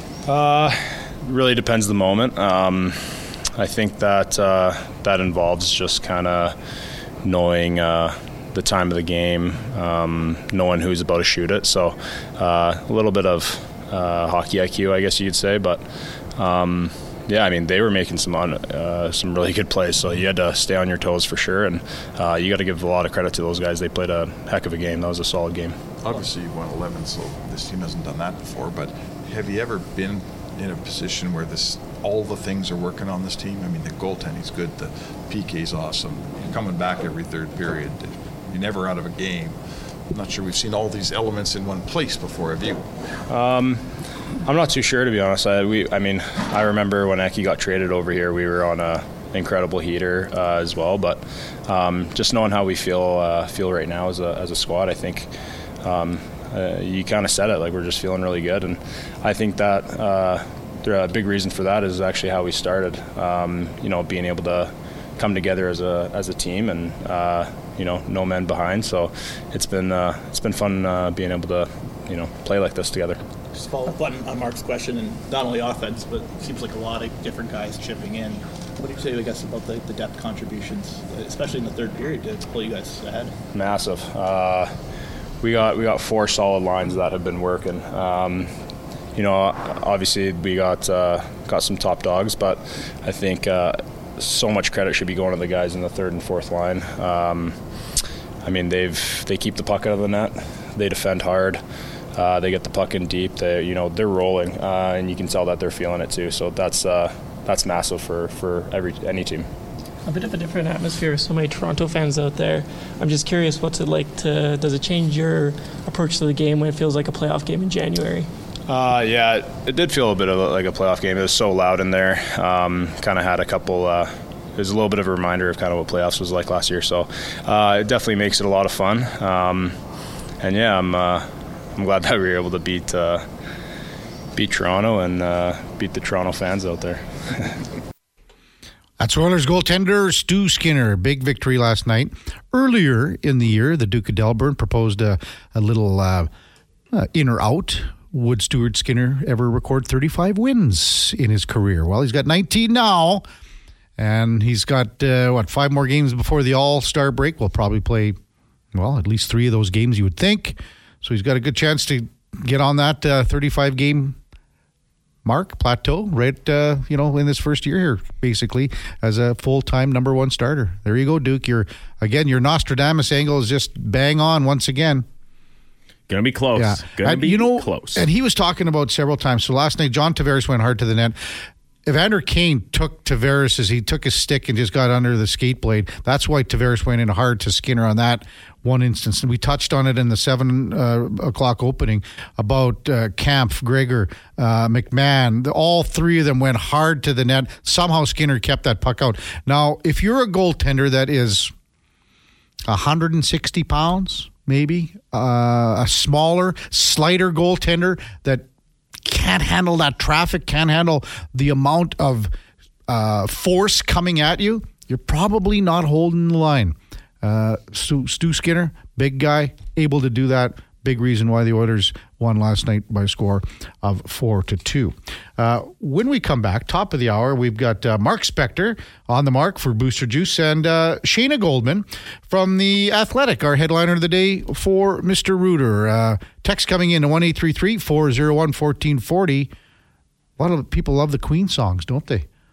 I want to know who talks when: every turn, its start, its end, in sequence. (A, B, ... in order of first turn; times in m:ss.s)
0:00.2-0:06.6 A
0:07.2-0:25.8 A
0:26.0-0:39.6 B
0:40.1-0:42.9 B
0:43.3-0:55.3 A
0:55.8-1:13.2 A
1:13.5-1:23.3 C
1:23.5-1:24.7 A
1:25.4-1:28.5 A
1:29.2-1:37.6 A
1:38.4-1:41.6 A
1:42.1-1:49.5 A
1:50.0-1:58.3 D
1:58.7-2:09.8 A
2:10.4-2:13.2 A
2:14.4-2:17.6 A
2:19.0-2:26.3 E
2:26.9-2:33.2 E
2:34.0-2:38.2 E
2:38.7-2:44.2 E
2:45.2-2:55.1 E
2:56.1-2:58.0 F
2:56.6-3:01.2 E
3:01.9-3:21.5 E
3:22.7-3:28.4 E
3:29.0-3:32.3 E
3:32.9-3:59.5 E
4:00.4-4:02.3 E